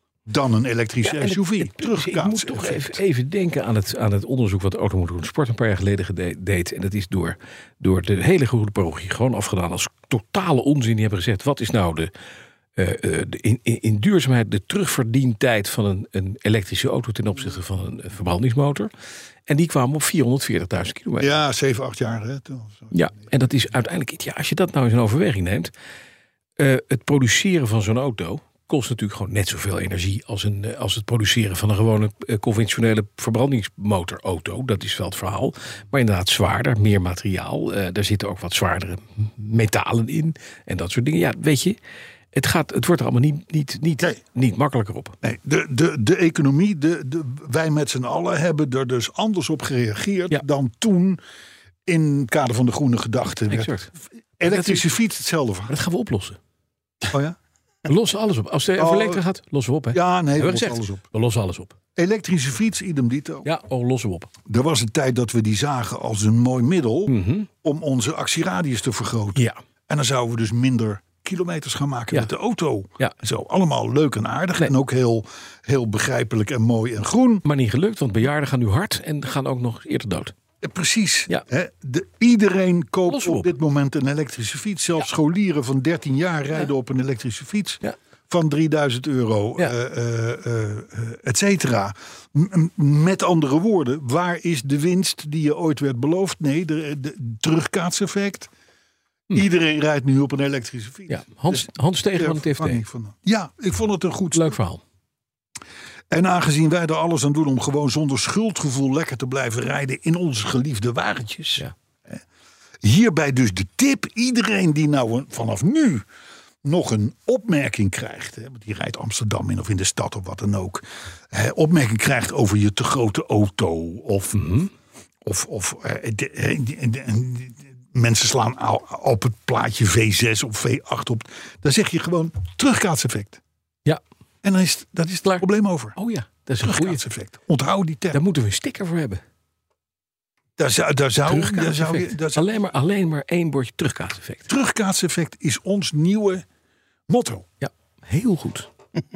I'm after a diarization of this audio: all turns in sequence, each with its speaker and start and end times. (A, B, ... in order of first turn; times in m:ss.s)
0:00.2-0:03.0 A
0:01.0-0:12.1 B
0:12.8-0:18.9 B
0:19.5-0:21.3 B
0:21.2-0:23.3 A
0:22.9-0:25.7 B
0:26.6-0:41.8 B
0:42.3-0:45.2 B
0:45.2-0:51.2 A
0:51.9-0:53.7 A
0:53.5-0:53.9 B
0:54.4-0:55.7 A
0:54.4-0:54.9 B
0:55.7-0:56.4 B
0:57.1-0:57.4 A
0:57.9-1:01.7 B
0:58.8-0:59.2 A
0:59.9-1:01.0 A
1:02.0-1:03.5 A
1:03.4-1:04.3 B
1:04.4-1:17.4 A
1:07.1-1:07.5 B
1:17.4-1:20.3 B
1:20.6-1:38.5 A
1:23.0-1:23.5 B
1:39.3-1:44.5 A
1:41.1-1:42.8 B
1:44.3-1:44.8 B
1:46.1-1:52.2 A
1:52.8-1:56.0 A
1:56.6-2:04.5 A
2:04.3-2:04.7 B
2:05.2-2:13.4 A
2:14.4-2:16.0 A
2:16.0-2:17.0 B
2:16.6-2:18.2 A
2:18.1-2:19.2 B
2:20.6-2:22.5 A
2:21.2-2:24.5 B
2:24.5-2:26.4 A
2:27.1-2:27.5 A
2:27.6-2:28.7 B